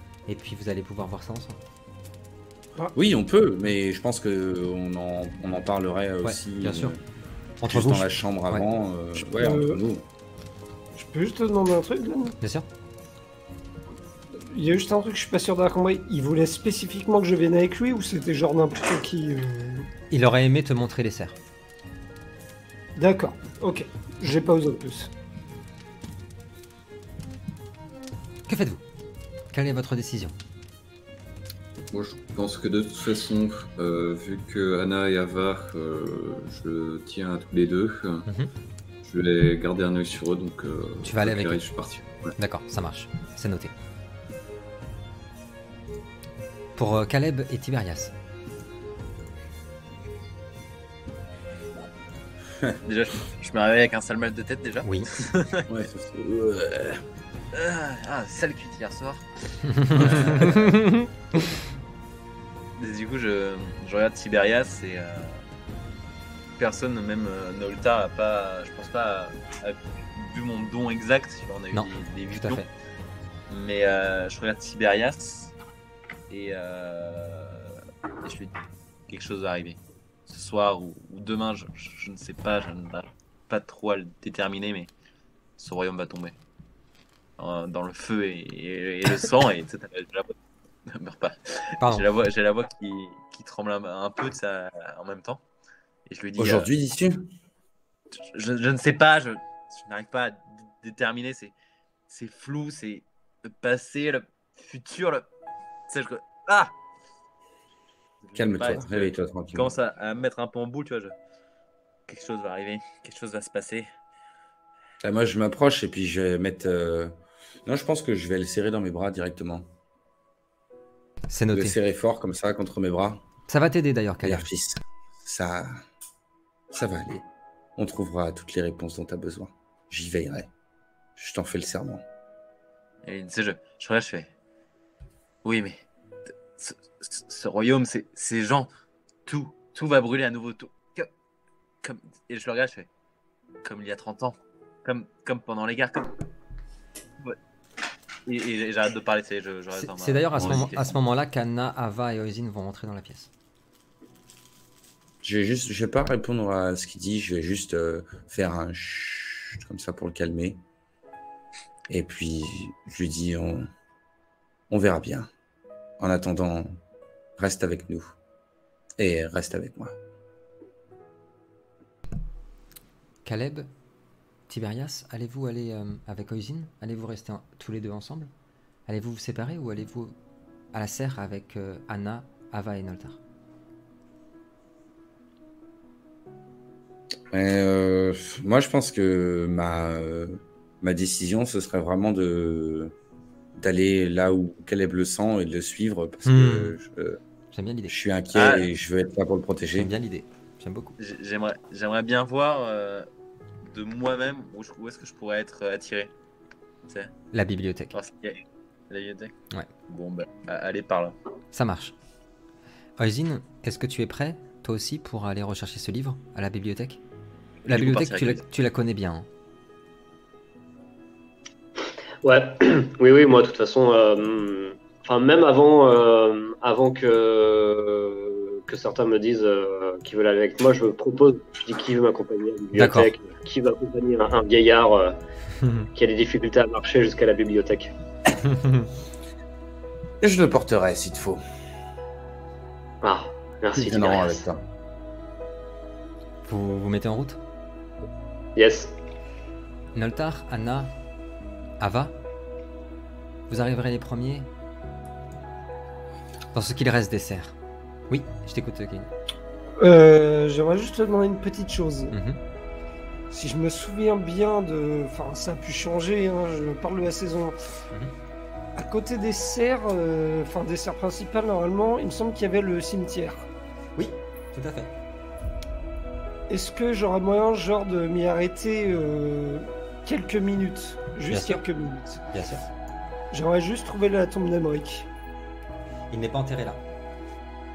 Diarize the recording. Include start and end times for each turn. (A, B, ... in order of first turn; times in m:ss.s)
0:00.3-0:01.6 A
0:02.9-0:07.0 B
0:06.2-0:06.9 A
0:07.6-0:08.7 A
0:07.6-0:10.0 B
0:09.2-0:09.8 C
0:11.0-0:12.4 C
0:12.4-0:12.6 A
0:14.4-0:19.9 C
0:20.1-0:21.3 A
0:23.0-0:25.1 C
0:28.5-0:28.8 A
0:29.5-0:30.3 A
0:31.9-0:38.3 D
0:39.0-0:42.3 D
0:41.0-0:41.6 A
0:42.4-0:43.7 A
0:46.8-0:48.1 A
0:52.8-0:55.6 E
0:54.8-0:55.1 A
0:55.7-0:57.0 B
0:57.5-0:59.2 E
0:59.6-1:01.1 A
0:59.8-1:00.8 E
1:00.1-1:00.5 B
1:02.8-1:05.4 E
1:06.6-1:12.7 E
1:11.7-1:12.7 A
1:13.5-1:15.5 E
1:16.3-1:24.9 E
1:25.6-1:26.3 E
1:27.4-1:30.3 E
1:30.9-1:35.4 E
1:31.8-1:32.0 A
1:36.1-1:36.7 E
1:36.4-1:37.2 B
1:38.1-1:41.5 E
1:42.1-1:45.3 E
1:45.9-1:46.7 E
1:48.2-1:51.1 E
1:48.3-1:49.7 B
1:52.1-1:53.9 E
1:55.0-1:57.1 B
1:57.6-1:59.7 B
2:01.3-2:01.8 A
2:01.5-2:03.2 B
2:03.5-2:04.5 A
2:04.2-2:05.8 B
2:06.7-2:10.5 B
2:11.2-2:12.0 B
2:13.0-2:14.3 E
2:15.4-2:15.8 E
2:16.6-2:18.7 E
2:19.2-2:21.1 E
2:21.8-2:22.9 E
2:23.6-2:26.1 E
2:28.2-2:31.0 E
2:29.7-2:33.3 A
2:35.2-2:40.6 B
2:41.9-2:43.7 B
2:44.7-2:45.3 B
2:46.0-2:46.7 B
2:47.4-2:48.1 B
2:49.0-2:50.0 B
2:53.2-2:53.7 A
2:54.5-2:58.3 A
2:58.9-3:00.1 A
3:00.7-3:03.2 A
3:07.3-3:12.9 B
3:13.6-3:17.2 B
3:16.2-3:16.8 A
3:17.5-3:17.9 A
3:17.9-3:19.9 B
3:18.3-3:18.7 E
3:19.7-3:20.9 A
3:21.0-3:23.1 E
3:23.6-3:26.1 E
3:26.9-3:27.1 E
3:27.3-3:27.9 A
3:27.9-3:29.3 E
3:29.9-3:31.2 E
3:31.5-3:31.9 A
3:33.0-3:37.0 A
3:37.6-3:38.4 E
3:37.7-3:39.3 A
3:42.2-3:55.2 F
3:52.7-3:53.1 A
3:55.9-3:57.9 F
3:58.5-3:58.8 A
4:00.2-4:01.4 B
4:03.0-4:04.4 F
4:03.7-4:04.6 B
4:06.4-4:07.4 A
4:08.6-4:08.9 F
4:09.9-4:10.9 A
4:11.8-4:12.1 A
4:13.5-4:14.5 A
4:16.5-4:17.5 A
4:18.1-4:19.1 A
4:19.8-4:22.1 C
4:22.1-4:22.4 A
4:23.3-4:27.5 C
4:28.8-4:33.5 C
4:34.0-4:34.9 A
4:36.5-4:42.2 C
4:41.3-4:41.6 A
4:42.3-4:42.6 A
4:43.3-4:45.1 C
4:46.1-4:46.8 A